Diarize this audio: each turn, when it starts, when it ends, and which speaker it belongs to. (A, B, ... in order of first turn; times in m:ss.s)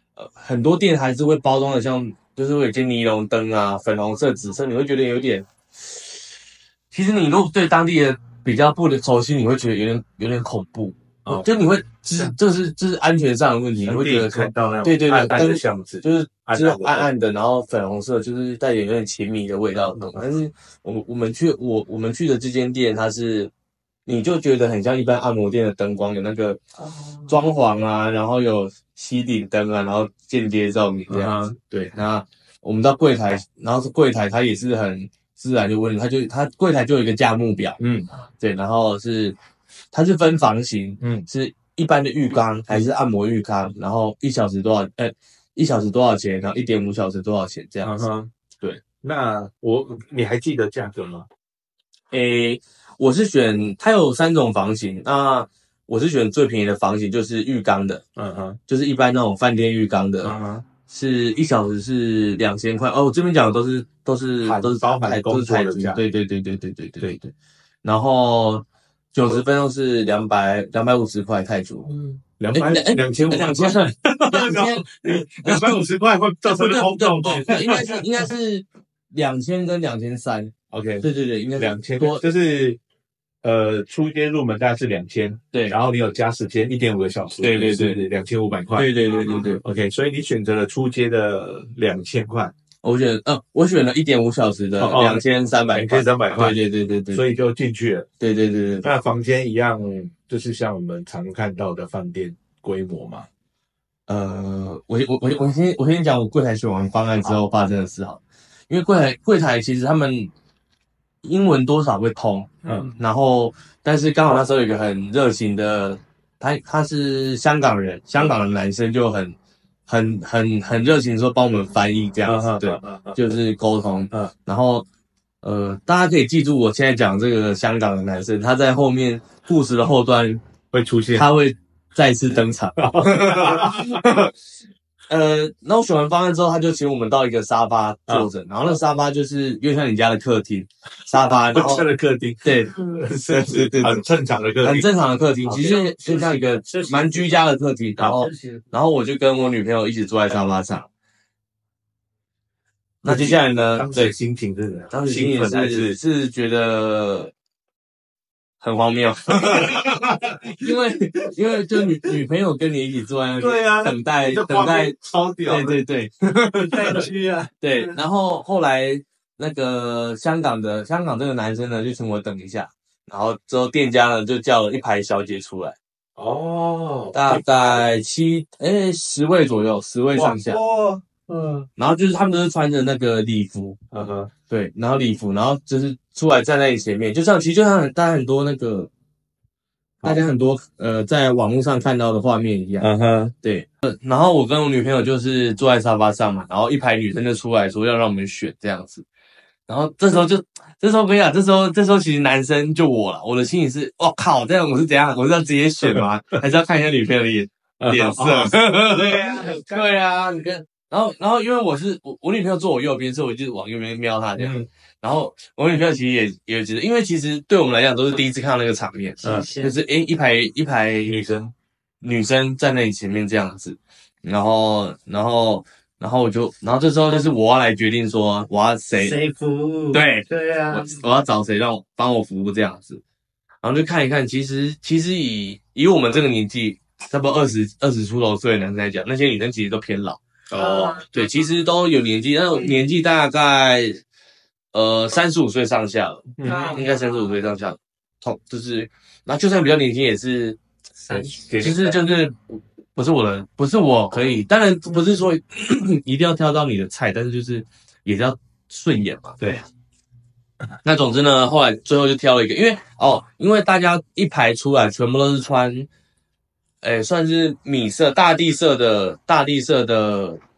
0:00.2-0:06.1 A
0:06.9-0:23.5 A
0:13.8-0:17.1 B
0:19.8-0:20.2 B
0:24.1-0:26.6 A
0:27.3-0:37.8 A
0:31.1-0:32.0 B
0:37.8-0:38.1 B
0:38.4-0:39.4 A
0:39.9-0:48.1 A
0:41.0-0:41.3 B
0:47.8-0:48.3 B
0:49.0-0:51.3 B
0:52.1-0:58.0 A
0:58.2-0:58.6 B
0:58.7-1:00.4 A
1:00.2-1:00.6 B
1:00.9-1:07.3 A
1:04.4-1:06.0 B
1:07.8-1:11.9 A
1:11.9-1:12.2 C
1:12.4-1:18.3 B
1:12.5-1:15.9 A
1:16.4-1:22.3 A
1:20.7-1:22.8 B
1:23.4-1:28.9 B
1:27.4-1:28.0 A
1:28.8-1:29.6 A
1:29.6-1:32.5 B
1:32.8-1:37.3 A
1:34.8-1:36.6 B
1:37.1-1:38.1 B
1:38.2-1:38.9 A
1:38.8-1:43.3 B
1:44.1-1:50.3 A
1:51.2-1:59.4 A
1:52.6-1:53.0 C
1:59.9-2:04.9 A
2:02.2-2:03.4 B
2:05.4-2:10.4 A
2:10.7-2:11.3 B
2:11.1-2:14.3 A
2:12.8-2:14.0 B
2:15.1-2:21.9 A
2:21.4-2:24.9 B
2:22.4-2:24.0 A
2:24.6-2:30.9 A
2:25.5-2:27.4 C
2:28.0-2:28.6 C
2:33.0-2:34.2 A
2:33.0-2:36.0 B
2:34.9-2:37.3 A
2:38.6-2:47.1 A
2:39.4-2:40.6 B
2:43.4-2:45.8 B
2:46.7-2:47.5 B
2:46.8-2:47.2 C
2:47.6-2:55.8 A
2:56.2-2:57.8 B
2:57.1-3:00.6 A
3:00.2-3:01.0 B
3:01.3-3:01.7 C
3:01.8-3:03.8 A
3:03.9-3:04.3 B
3:04.5-3:08.9 A
3:10.0-3:12.9 A
3:12.8-3:13.3 B
3:13.4-3:19.1 A
3:19.7-3:41.2 A
3:27.8-3:29.8 B
3:29.0-3:29.6 C
3:34.4-3:34.7 B
3:39.2-3:39.8 C
3:41.1-3:41.5 B
3:42.0-3:49.2 A
3:48.9-3:51.0 C
3:49.9-3:53.0 A
3:53.6-4:00.2 A
4:00.5-4:01.0 B
4:00.5-4:01.3 C
4:01.1-4:04.0 A
4:04.7-4:10.6 A
4:06.4-4:06.8 B
4:06.4-4:07.3 C
4:11.0-4:11.5 C
4:11.1-4:12.0 B
4:11.6-4:19.4 A
4:20.8-4:25.9 A
4:26.8-4:30.4 A